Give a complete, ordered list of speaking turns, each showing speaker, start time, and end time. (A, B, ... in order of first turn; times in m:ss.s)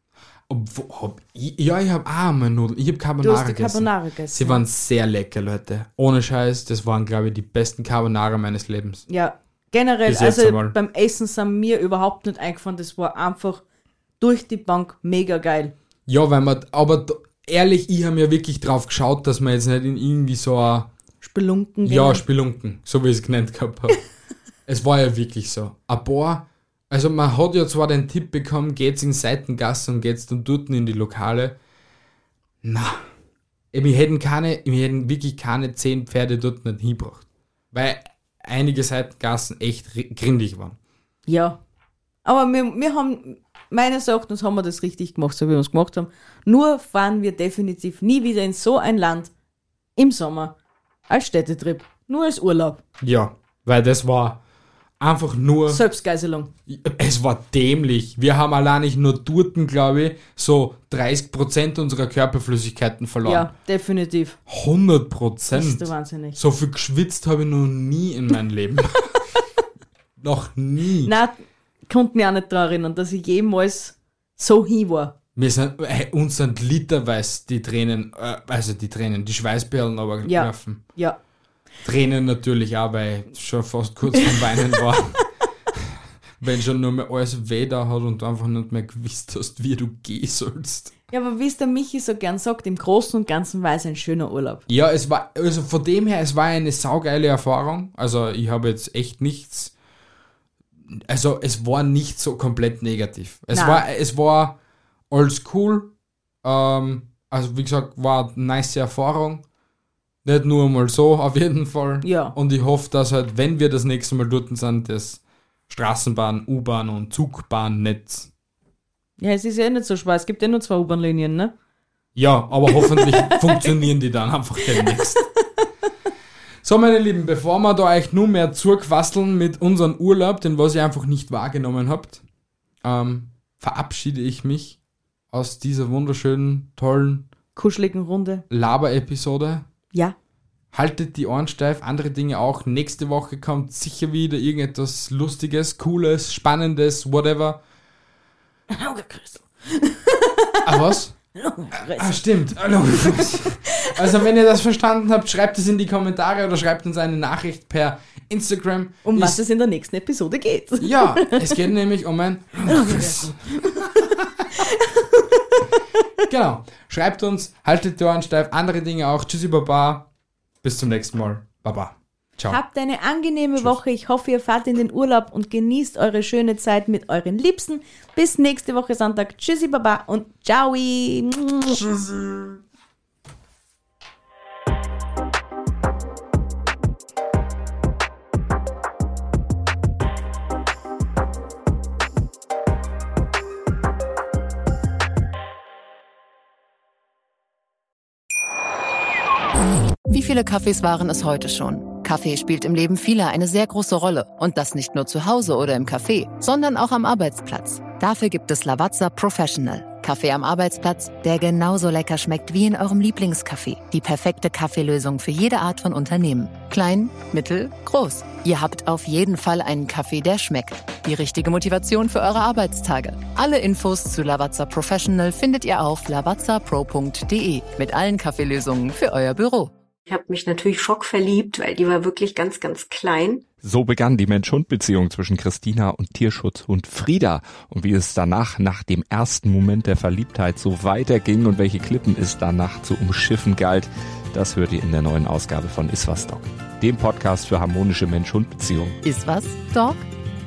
0:00.5-0:09.0 A
0:03.2-0:04.6 B
0:09.1-0:13.6 B
0:10.0-0:10.8 A
0:14.2-0:15.7 B
0:16.1-0:20.9 A
0:21.2-0:22.2 B
0:21.8-0:24.0 A
0:24.7-0:31.6 A
0:32.6-0:33.0 A
0:33.7-0:40.8 A
0:41.3-0:41.6 B
0:42.2-0:49.3 B
0:50.0-0:50.5 B
0:51.1-0:52.8 B
0:53.0-0:54.4 A
0:55.0-0:55.8 A
0:55.7-0:56.5 B
0:56.7-1:03.5 A
1:03.2-1:04.4 B
1:04.5-1:09.2 A
1:05.5-1:06.4 B
1:10.2-1:11.1 A
1:11.0-1:15.1 B
1:15.3-1:20.8 A
1:20.2-1:21.2 B
1:21.8-1:30.9 A
1:31.1-1:34.6 B
1:34.7-1:39.7 A
1:40.9-1:44.6 A
1:43.5-1:43.8 B
1:45.1-1:45.9 A
1:46.4-1:49.4 A
1:50.2-1:58.3 A
1:52.0-1:52.4 B
1:59.2-2:01.5 B
2:02.2-2:05.2 A
2:02.7-2:03.7 B
2:04.7-2:05.2 B
2:06.6-2:12.2 A
2:12.8-2:14.8 A
2:15.3-2:17.3 A
2:17.6-2:18.4 B
2:18.5-2:19.6 A
2:20.7-2:27.6 A
2:28.7-2:32.1 B
2:30.6-2:31.2 A
2:31.7-2:39.4 A
2:33.3-2:33.9 B
2:39.0-2:41.6 B
2:40.8-2:44.4 A
2:42.6-2:45.4 B
2:46.2-2:50.1 A
2:50.6-2:52.6 A
2:52.5-3:01.9 B
3:01.8-3:02.5 A
3:20.1-3:49.7 C
3:50.0-3:53.4 D
3:53.6-4:09.0 E
4:09.0-4:10.0 C